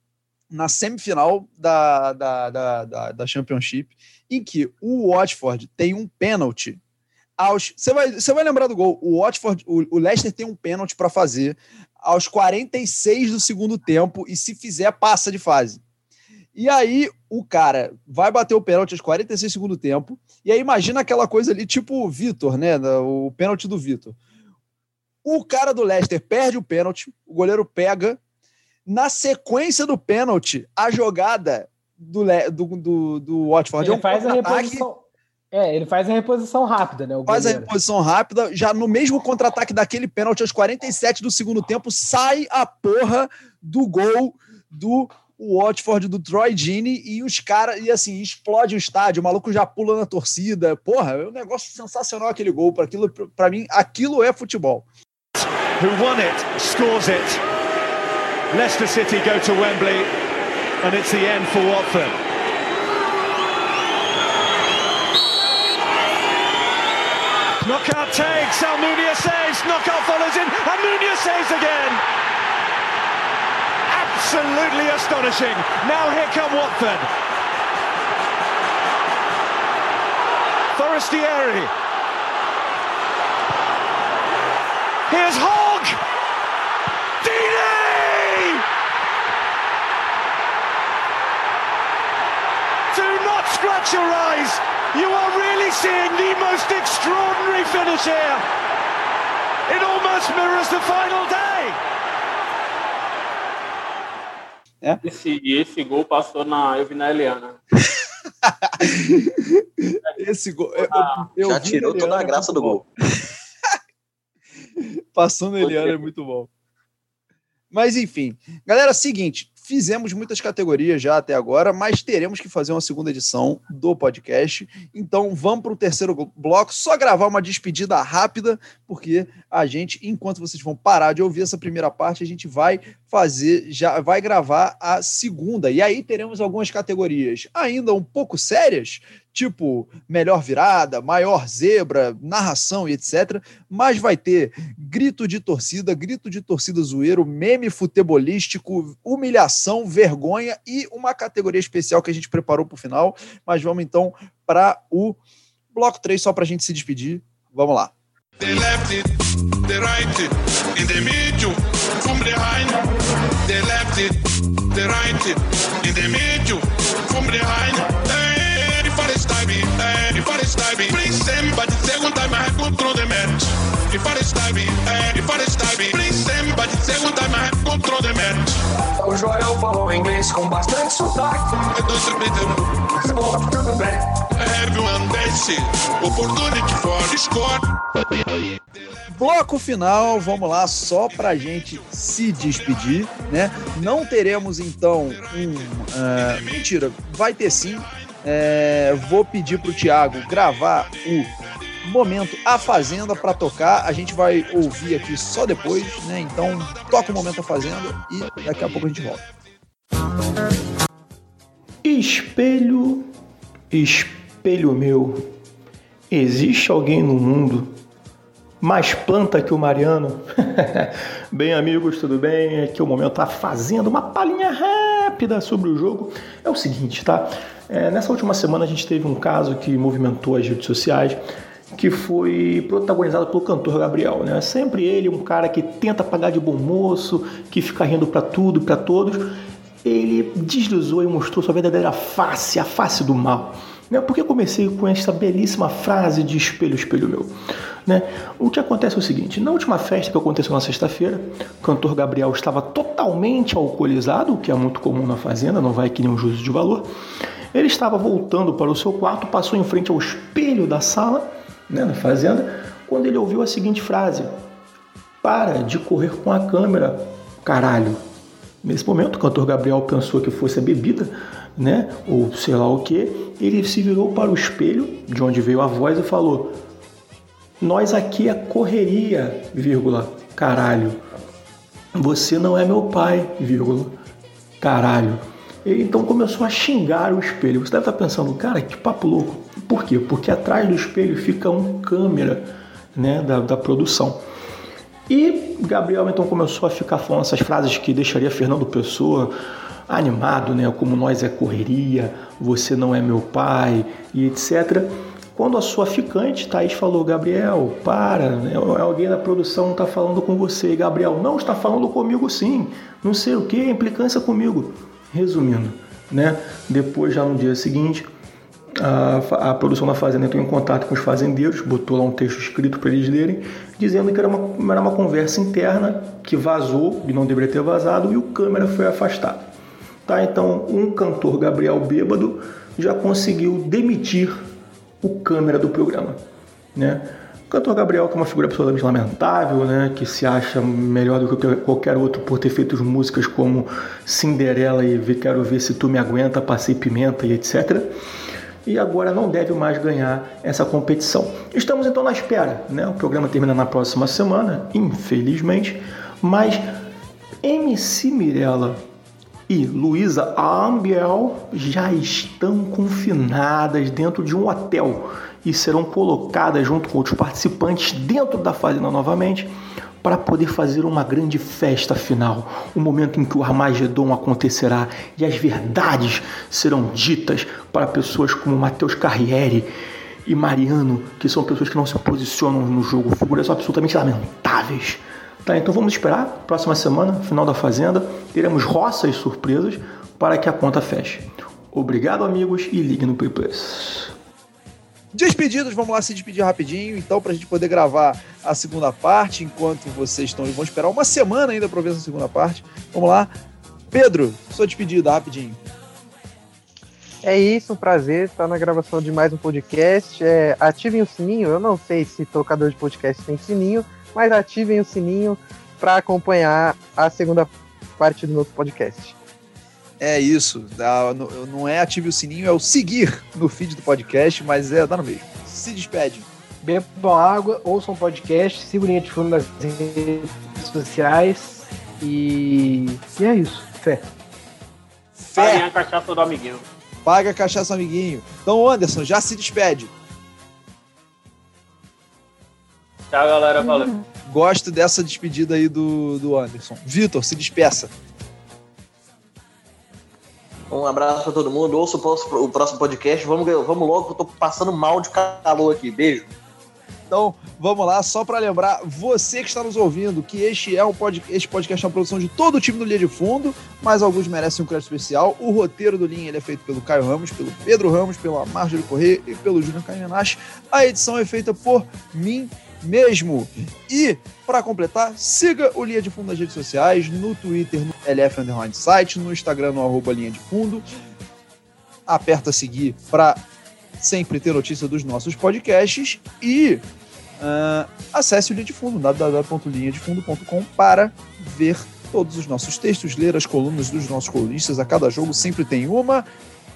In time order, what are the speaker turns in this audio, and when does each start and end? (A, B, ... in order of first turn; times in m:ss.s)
0:00.5-0:06.8 A
0:07.4-0:15.8 A
0:16.6-0:24.2 A
0:25.2-0:28.2 A
0:28.8-0:34.8 A
0:33.8-0:37.7 B
0:37.2-0:54.8 A
0:55.8-0:57.4 C
0:58.5-1:00.1 C
1:00.8-1:02.2 C
1:07.6-1:12.0 C
1:13.9-1:17.1 C
1:20.7-1:21.7 C
1:25.1-1:26.0 C
1:27.2-1:28.6 C
1:32.9-1:38.4 C
1:39.7-1:41.8 C
1:45.0-1:47.6 D
1:48.4-1:52.8 A
1:50.8-1:51.3 D
1:51.4-1:52.8 E
1:55.1-1:56.5 A
1:55.6-1:56.0 D
1:57.7-2:35.2 A
2:35.7-2:37.9 A
2:38.4-2:42.9 F
2:43.4-2:58.6 F
2:59.1-3:01.2 G
3:01.6-3:02.9 F
3:04.3-3:07.6 F
3:09.1-3:21.3 A
3:21.8-3:29.2 A
3:31.8-3:33.0 H
3:33.7-3:35.3 H
3:36.1-3:37.7 H
3:38.6-3:51.2 H
3:51.7-3:59.3 H
3:59.8-4:07.3 H
4:07.8-4:16.9 H
4:17.5-4:24.3 H
4:25.2-4:28.0 H
4:28.6-4:36.5 H
4:37.6-4:41.0 H
4:42.0-4:44.0 H
4:44.6-4:52.4 H
4:52.9-4:54.2 H
4:55.1-4:59.3 H
4:59.9-5:18.0 H
5:18.8-5:29.5 H
5:30.0-5:34.4 H
5:35.0-5:36.2 H
5:36.7-5:47.9 H
5:48.6-5:56.6 H
5:57.4-5:58.8 H
5:59.5-6:09.5 H
6:10.0-6:19.7 H
6:20.2-6:34.1 H
6:35.1-6:43.3 A
6:43.9-6:45.6 A
6:47.2-6:59.1 I
7:00.0-7:06.3 A
7:06.6-7:14.0 B
7:15.2-7:15.6 A
7:15.4-7:16.6 D
7:17.0-7:19.9 A
7:23.1-7:23.9 D
7:24.2-7:27.9 A
7:30.7-7:36.3 E
7:37.1-8:00.8 A
8:02.1-8:03.4 A
8:04.0-8:06.8 A
8:07.4-8:16.3 A